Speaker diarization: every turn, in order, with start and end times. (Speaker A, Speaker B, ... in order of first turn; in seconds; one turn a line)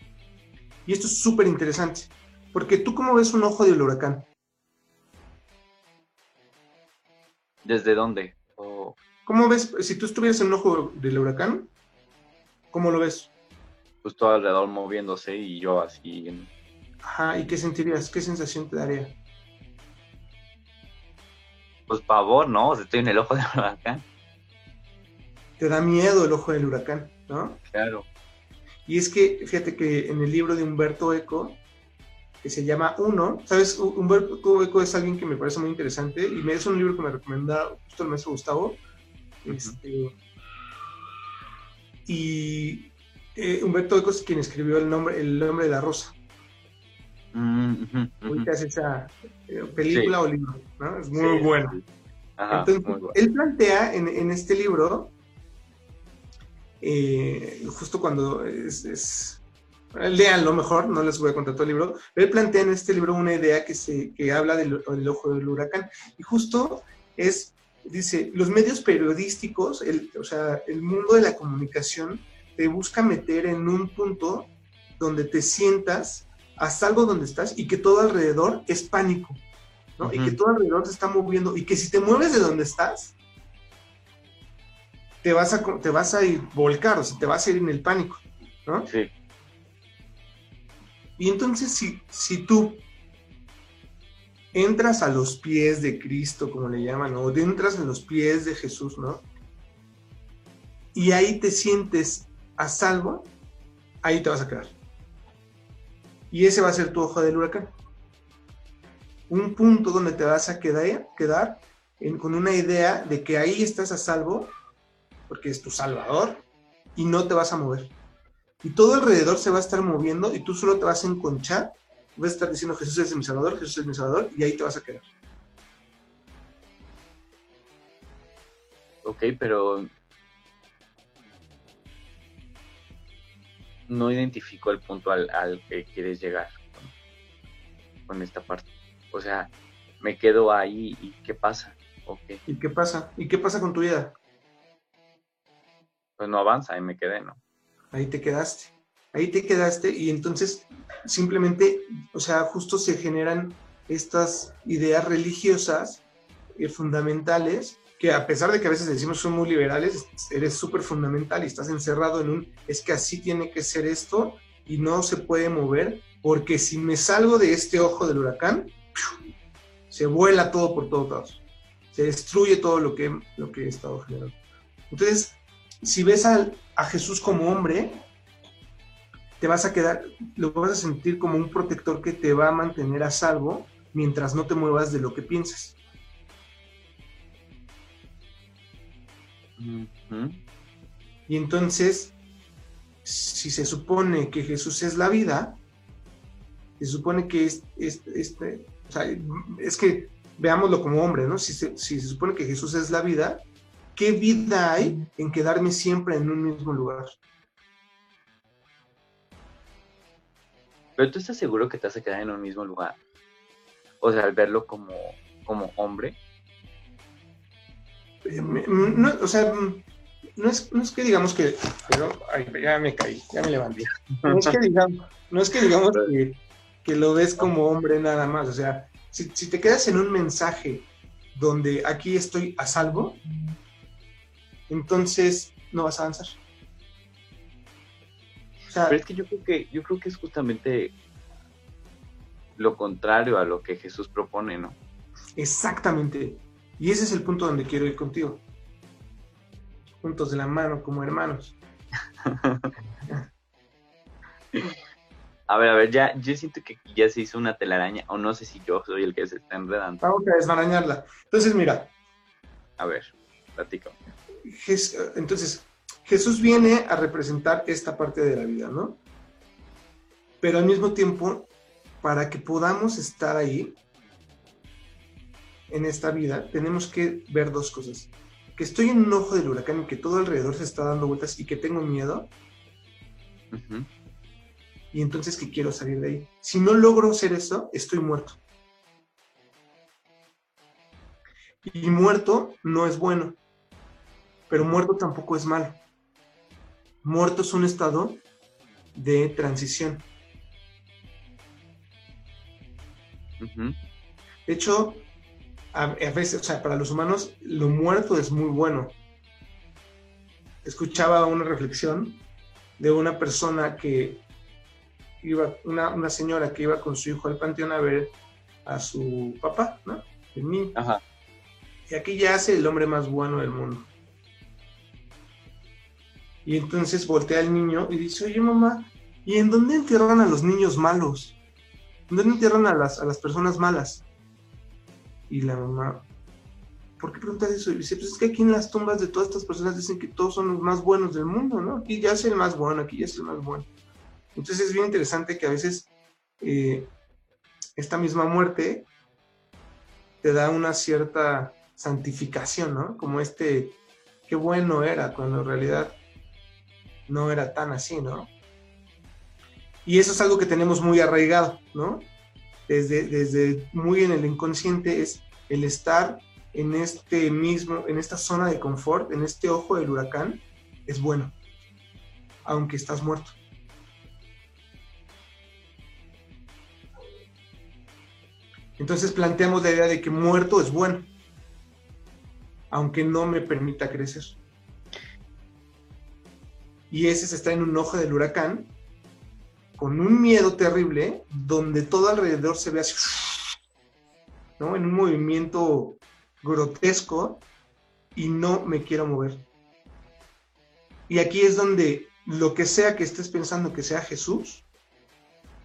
Speaker A: 0.9-4.3
Speaker B: 7.6-9.0
Speaker A: 9.3-11.7
Speaker A: 12.7-13.3
Speaker B: 14.0-16.5
Speaker A: 17.0-19.2
Speaker B: 21.9-24.1
Speaker A: 25.6-27.6
Speaker B: 27.7-28.1
Speaker A: 28.9-31.6
Speaker A: 32.4-38.8
Speaker A: 39.4-40.1
Speaker B: 39.5-39.8
Speaker A: 42.1-46.1
Speaker B: 47.3-48.5
Speaker A: 48.2-51.8
Speaker B: 49.9-50.2
Speaker B: 51.1-51.8
Speaker B: 52.4-53.2
Speaker A: 52.5-55.1
Speaker A: 56.8-59.4
Speaker A: 59.9-79.4
Speaker A: 80.0-83.1
Speaker B: 80.0-80.4
Speaker A: 85.2-88.9
Speaker B: 88.9-89.1
Speaker A: 91.2-92.8
Speaker A: 94.5-99.3
Speaker A: 100.9-103.3
Speaker A: 104.0-104.8
Speaker A: 106.3-107.7
Speaker A: 109.3-114.5
Speaker A: 115.3-117.9
Speaker A: 118.6-125.1
Speaker B: 129.0-129.9
Speaker B: 133.9-136.9
Speaker B: 138.1-142.4
Speaker A: 142.5-144.2
Speaker B: 146.2-147.4
Speaker A: 147.9-156.0
Speaker A: 156.6-168.8
Speaker A: 169.9-171.4
Speaker A: 171.9-174.4
Speaker A: 174.9-178.0
Speaker A: 179.4-185.8
Speaker B: 189.6-190.4
Speaker A: 191.3-192.1
Speaker A: 193.0-195.6
Speaker A: 196.8-203.4
Speaker A: 203.9-207.2
Speaker B: 211.0-213.0
Speaker B: 214.0-216.2
Speaker A: 218.2-219.8
Speaker A: 220.4-233.2
Speaker B: 223.8-224.6
Speaker A: 234.7-236.4
Speaker A: 238.7-239.0
Speaker B: 238.9-240.9
Speaker B: 242.6-244.8
Speaker A: 245.4-248.4
Speaker A: 250.0-251.6
Speaker B: 252.2-252.7
Speaker B: 255.5-260.0
Speaker A: 260.0-261.9
Speaker B: 262.8-264.0
Speaker A: 264.4-269.0
Speaker A: 270.4-271.5
Speaker A: 272.0-273.8
Speaker A: 275.7-282.3
Speaker B: 283.5-283.9
Speaker A: 284.9-288.4
Speaker A: 291.6-293.4
Speaker A: 294.5-295.8
Speaker A: 297.0-298.2
Speaker A: 298.9-300.1
Speaker B: 303.4-303.8
Speaker A: 304.5-305.1
Speaker A: 305.7-309.0
Speaker A: 310.6-312.2
Speaker A: 312.8-314.2
Speaker A: 315.2-318.1
Speaker A: 318.6-320.8
Speaker B: 320.8-321.0
Speaker A: 321.9-323.9
Speaker A: 326.4-331.4
Speaker A: 332.1-334.0
Speaker A: 335.3-336.1
Speaker A: 337.0-343.7
Speaker A: 344.4-345.9
Speaker A: 346.4-346.9
Speaker A: 347.8-348.9
Speaker A: 350.2-356.0
Speaker A: 357.1-358.3
Speaker A: 359.9-362.1
Speaker A: 362.7-371.4
Speaker A: 372.4-373.4
Speaker A: 378.8-381.1
Speaker A: 382.7-384.4
Speaker A: 386.9-388.7
Speaker A: 389.8-393.4
Speaker A: 394.6-397.4
Speaker A: 398.1-399.4
Speaker A: 401.1-404.6